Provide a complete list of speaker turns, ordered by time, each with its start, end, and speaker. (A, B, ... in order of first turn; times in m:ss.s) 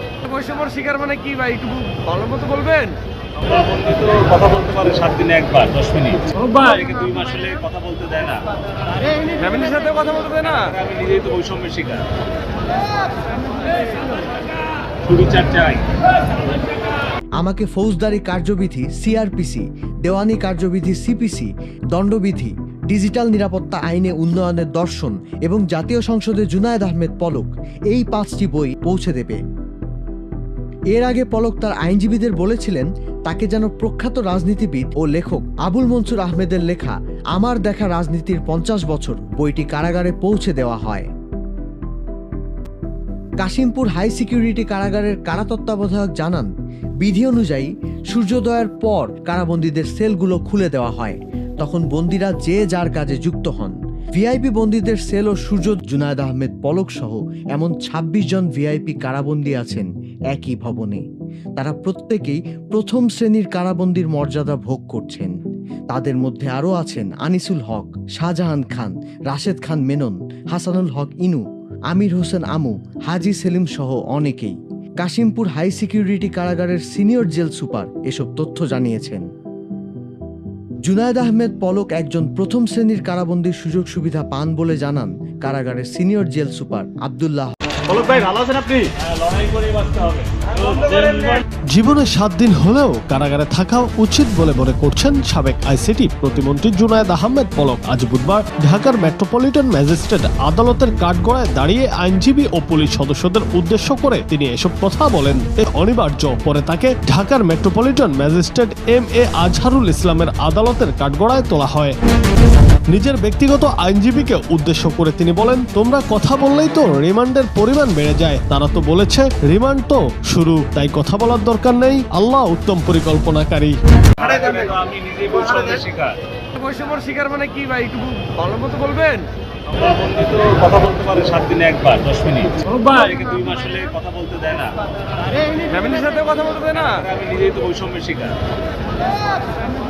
0:00.3-0:02.9 A
0:03.4-0:08.5 B
0:09.0-0:12.0 B
0:15.0-0:15.8 B
0:17.4-0:29.4 C
0:30.9-0:41.1 C
0:43.4-1:01.0 C
1:01.6-1:05.3 C
1:05.9-1:19.3 C
1:20.8-1:27.5 C
1:27.9-1:31.4 B
1:31.7-1:52.0 D
1:52.9-2:03.7 D
2:04.2-2:06.1 B
2:06.6-2:09.2 A
2:09.7-2:18.3 B